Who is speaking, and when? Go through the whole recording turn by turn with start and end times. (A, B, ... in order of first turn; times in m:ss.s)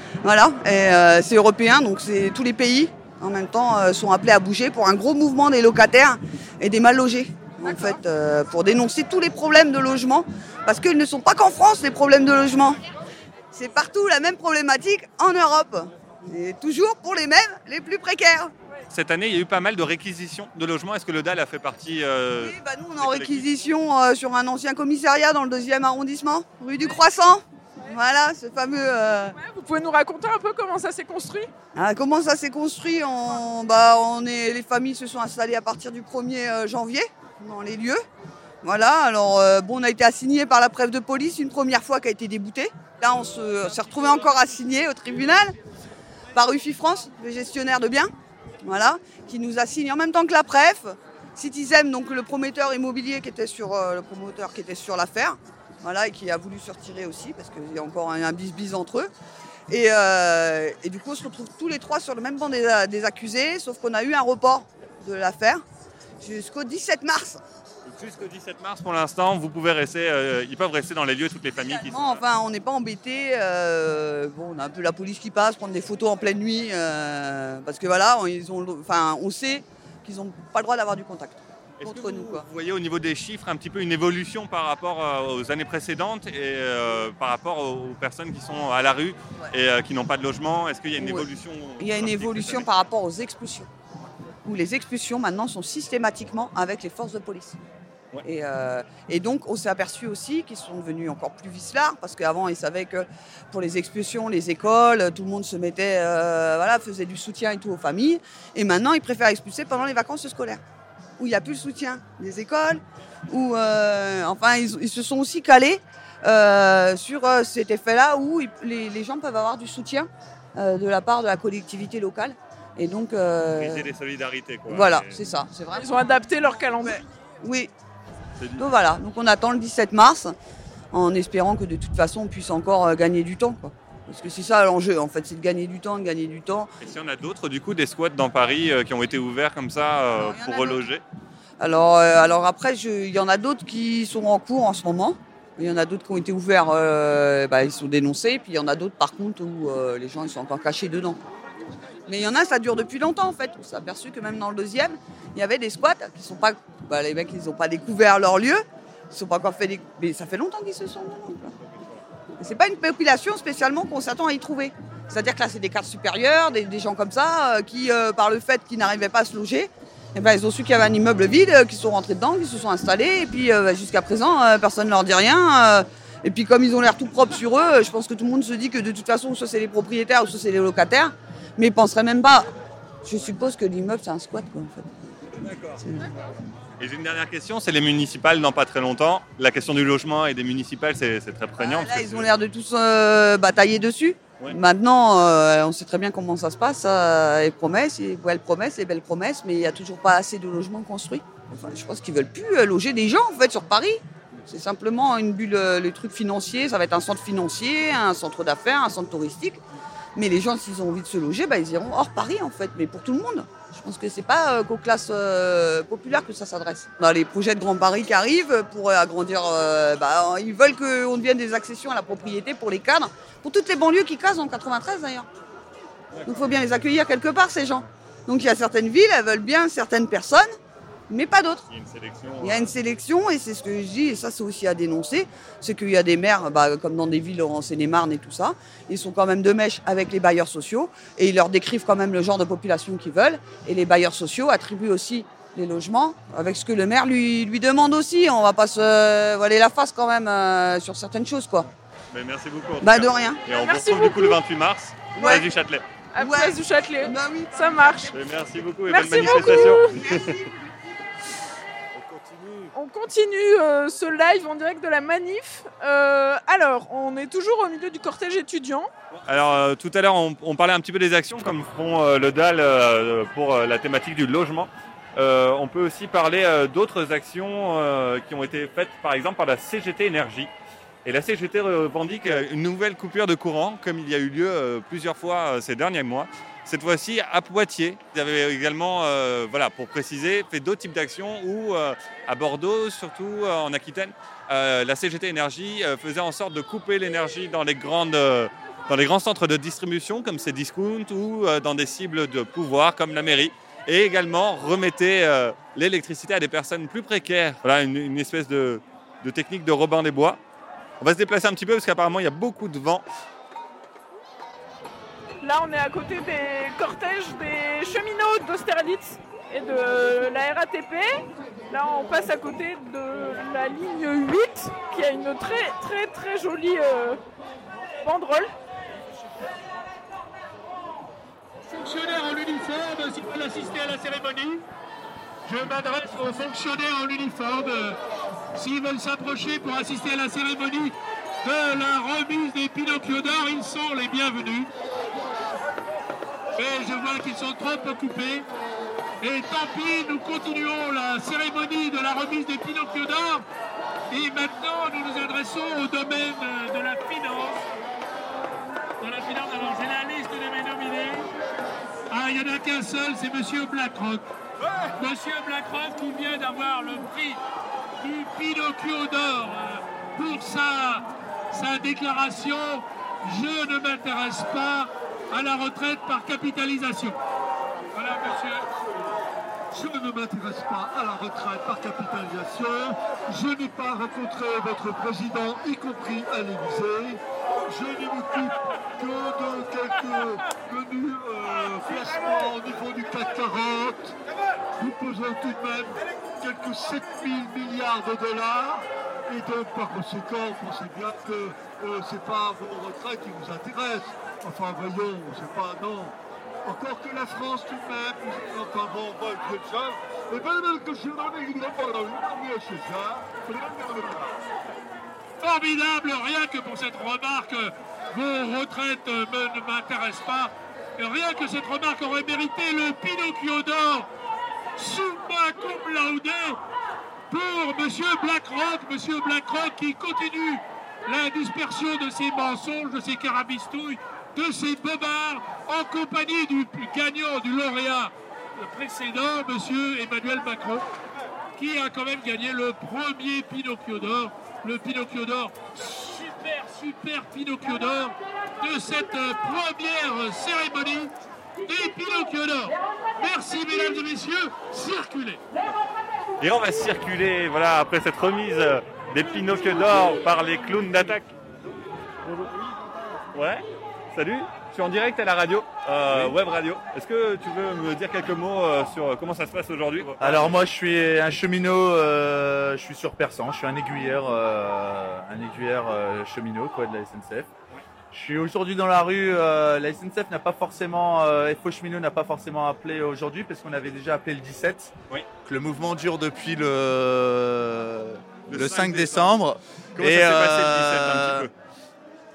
0:00.2-0:12.8 A
0:07.6-0:08.0 B
0:13.5-0:18.5 A
0:18.9-0:23.5 C
0:22.4-0:29.3 A
0:29.4-0:31.5 B
0:31.7-0:38.0 A
0:38.6-0:45.6 A
0:46.3-0:59.1 A
0:59.7-1:05.6 A
1:06.2-1:07.4 A
1:07.8-1:12.2 C
1:11.7-1:22.4 A
1:21.8-1:32.7 C
1:31.0-1:31.3 A
1:31.8-1:33.7 A
1:34.4-1:37.6 A
1:38.2-1:50.6 A
1:51.2-2:03.9 A
2:03.5-2:05.2 C
2:04.7-2:07.7 A
2:05.7-2:07.1 B
2:08.4-2:08.7 C
2:08.6-2:10.3 A
2:10.9-2:16.7 A
2:16.8-2:21.0 C
2:20.1-2:20.8 A
2:21.6-2:31.2 A
2:32.1-2:41.5 A
2:41.7-2:42.0 C
2:42.4-3:02.5 A
3:03.0-3:05.2 A
3:05.4-3:05.8 C
3:05.8-3:06.1 A
3:06.8-3:12.3 C
3:11.6-3:29.6 A
3:30.2-3:45.3 A
3:46.2-3:50.5 A
3:51.1-3:51.6 A
3:51.7-3:52.7 C
3:52.4-4:11.7 A
4:12.1-4:15.8 C
4:12.8-4:13.4 A
4:13.5-4:14.4 B
4:15.1-4:15.4 A
4:16.1-4:18.1 B
4:16.2-4:18.1 A
4:18.1-4:20.3 C
4:18.9-4:20.0 B
4:19.2-4:20.6 A
4:21.9-4:22.7 C
4:22.7-4:28.9 B
4:29.1-4:40.5 C
4:41.0-5:10.4 C
5:11.0-5:13.0 C
5:15.4-5:27.2 B
5:28.0-5:28.5 B
5:31.7-5:34.6 D
5:35.4-5:38.0 D
5:38.5-5:44.7 D
5:46.6-5:48.4 D
5:49.2-5:53.4 D
5:54.1-5:57.6 D
5:59.0-6:01.3 D
6:02.1-6:04.3 D
6:04.9-6:07.4 D
6:08.0-6:17.2 D
6:17.9-6:18.8 D
6:19.7-6:34.2 E
6:34.8-6:54.3 E
6:55.4-7:04.1 D
7:04.8-7:06.6 D
7:07.3-7:20.8 D
7:21.5-7:31.1 D
7:31.6-7:35.4 D
7:36.4-7:41.3 C
7:43.3-7:50.6 C
7:46.1-7:46.3 F
7:50.2-7:57.5 F
7:58.1-8:04.9 F
8:05.4-8:11.5 F
8:08.5-8:09.3 C
8:10.0-8:11.5 C